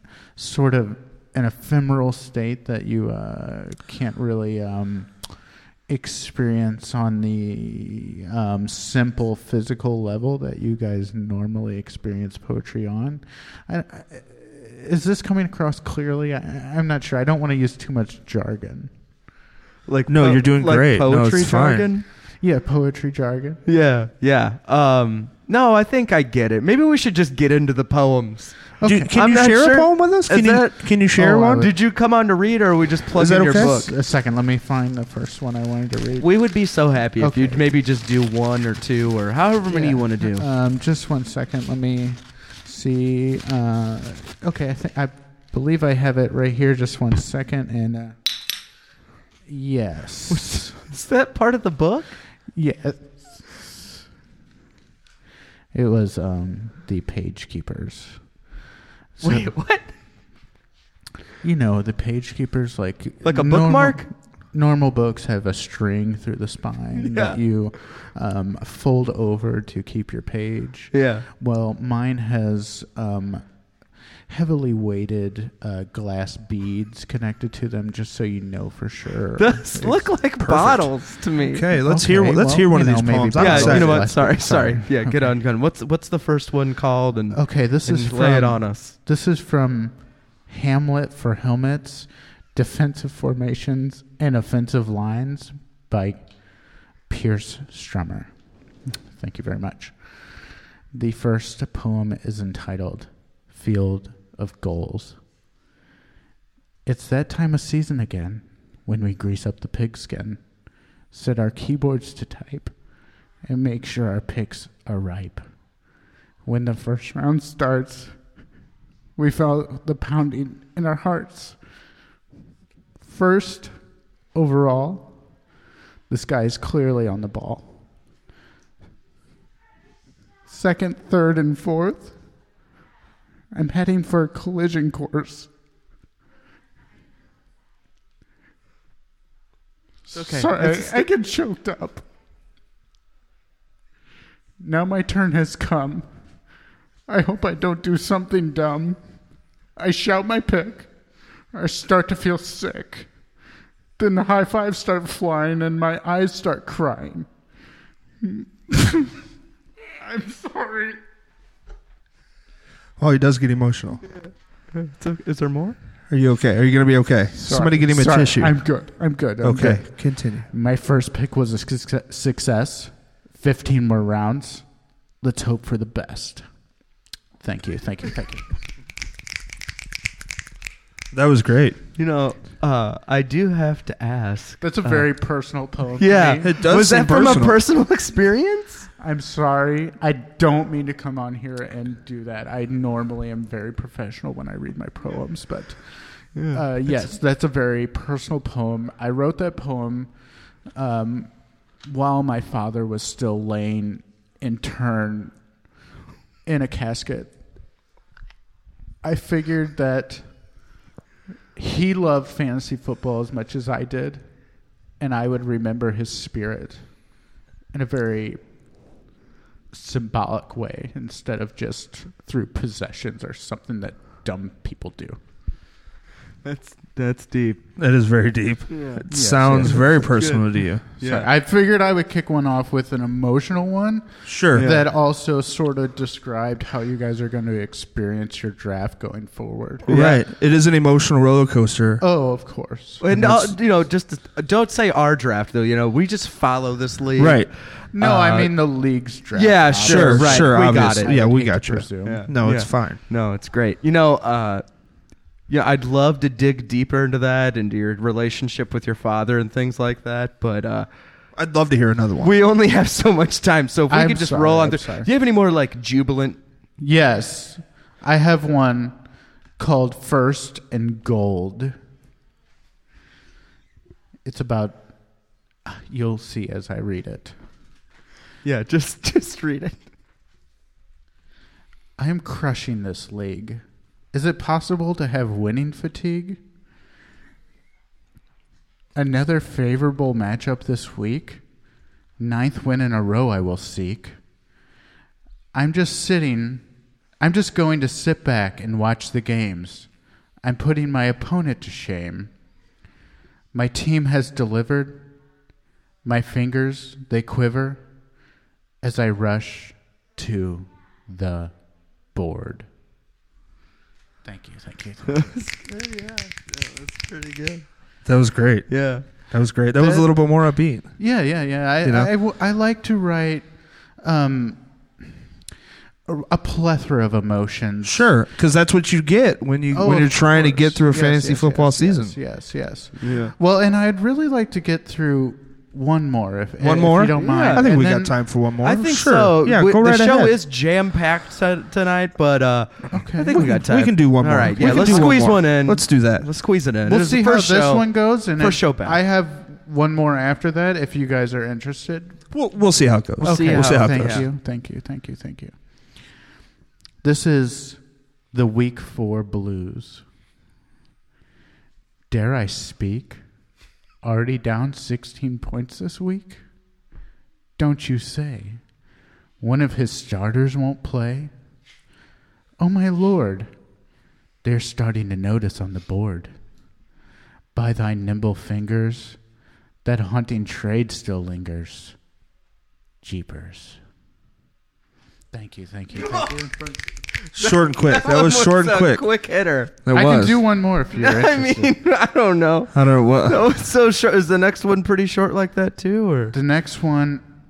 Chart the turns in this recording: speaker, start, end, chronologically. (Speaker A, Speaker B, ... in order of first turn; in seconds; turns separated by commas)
Speaker A: 0.3-18.9, Speaker B: 19.9-22.0, Speaker C: 20.1-21.9, Speaker A: 22.4-23.6, Speaker B: 23.6-33.9, Speaker A: 28.8-29.1, Speaker C: 28.8-31.6, Speaker A: 31.1-31.7, Speaker C: 33.2-33.7, Speaker A: 33.4-36.3, Speaker B: 36.2-40.5, Speaker A: 37.2-37.6, Speaker A: 39.7-48.2, Speaker A: 49.4-50.8, Speaker B: 50.3-52.1, Speaker A: 52.5-54.0, Speaker A: 55.7-58.4, Speaker A: 59.2-59.5, Speaker B: 59.2-59.9, Speaker A: 61.4-73.7, Speaker B: 63.2-64.1, Speaker B: 67.0-67.4, Speaker B: 70.9-71.2, Speaker A: 74.3-80.9, Speaker B: 79.4-81.6, Speaker C: 81.4-84.2, Speaker A: 81.8-85.3, Speaker B: 83.4-88.9, Speaker A: 87.3-98.4, Speaker A: 99.0-105.2, Speaker A: 106.8-112.8, Speaker A: 113.4-115.5, Speaker A: 116.4-118.4, Speaker A: 119.2-121.6, Speaker A: 123.0-123.7, Speaker A: 124.3-125.1, Speaker A: 126.1-127.8, Speaker A: 130.5-132.2, Speaker A: 133.5-135.5, Speaker A: 140.1-142.1, Speaker B: 140.1-141.1, Speaker A: 144.6-146.5, Speaker A: 147.1-149.0, Speaker A: 149.7-153.1, Speaker A: 154.0-157.3, Speaker A: 158.2-159.2, Speaker A: 159.9-161.0, Speaker C: 163.0-164.1, Speaker B: 164.1-165.8, Speaker C: 166.1-168.8, Speaker A: 167.3-174.7, Speaker C: 169.4-170.4, Speaker A: 175.2-176.4, Speaker A: 177.4-178.5, Speaker C: 181.1-181.8, Speaker B: 181.9-185.0, Speaker A: 184.6-186.5, Speaker B: 186.0-188.9, Speaker C: 186.4-187.6, Speaker A: 189.0-205.3, Speaker B: 196.3-196.6, Speaker A: 206.4-207.4, Speaker A: 209.0-210.6, Speaker A: 211.6-214.4, Speaker A: 215.0-217.2, Speaker A: 217.7-218.4, Speaker A: 219.7-225.2, Speaker B: 226.4-227.6, Speaker C: 227.8-230.9, Speaker B: 228.7-229.0, Speaker A: 229.1-230.4, Speaker B: 230.1-230.4, Speaker B: 231.0-231.3, Speaker A: 231.0-240.1, Speaker C: 234.2-234.7, Speaker B: 234.5-234.8, Speaker B: 239.8-240.2, Speaker C: 239.9-242.0, Speaker A: 242.0-243.3, Speaker B: 243.0-248.5, Speaker C: 243.1-243.5, Speaker C: 247.2-247.5, Speaker A: 247.9-252.2, Speaker B: 249.3-251.1, Speaker C: 249.8-253.0, Speaker B: 252.0-254.7, Speaker B: 255.5-260.9, Speaker C: 261.4-262.3, Speaker B: 262.2-266.4, Speaker A: 263.9-265.1, Speaker A: 266.8-269.0, Speaker A: 269.6-271.8, Speaker A: 274.2-277.4, Speaker B: 278.4-279.8, Speaker A: 282.0-286.4, Speaker A: 288.9-291.4, Speaker A: 292.2-294.2, Speaker A: 295.5-299.9, Speaker A: 300.4-302.3, Speaker A: 303.5-305.1, Speaker A: 306.0-307.9, Speaker A: 308.8-312.7, Speaker A: 314.2-315.4, Speaker B: 315.1-317.7, Speaker C: 318.0-320.9, Speaker B: 318.7-319.0, Speaker A: 319.8-320.2, Speaker A: 321.0-324.7, Speaker C: 321.8-322.1, Speaker A: 326.1-328.1, Speaker C: 327.8-332.1, Speaker A: 329.7-338.2, Speaker B: 333.0-333.3, Speaker C: 336.6-340.4, Speaker B: 337.1-337.7, Speaker B: 338.6-349.0, Speaker A: 342.9-343.5, Speaker C: 343.4-346.2, Speaker A: 344.6-345.3, Speaker A: 346.9-352.2, Speaker C: 352.3-354.3, Speaker B: 353.2-354.2, Speaker A: 353.2-355.6, Speaker A: 357.0-360.0, Speaker A: 362.1-363.2, Speaker A: 364.0-366.4, Speaker A: 367.6-368.6, Speaker A: 369.4-371.3, Speaker A: 372.6-373.5, Speaker A: 374.4-376.3, Speaker A: 377.5-379.2, Speaker A: 379.8-381.9, Speaker A: 383.0-383.8, Speaker A: 385.3-386.8, Speaker B: 387.3-389.7, Speaker C: 387.4-389.0, Speaker C: 389.8-390.4, Speaker A: 389.9-391.8, Speaker B: 391.0-392.7, Speaker C: 392.7-393.4, Speaker B: 393.2-396.3, Speaker A: 396.3-397.2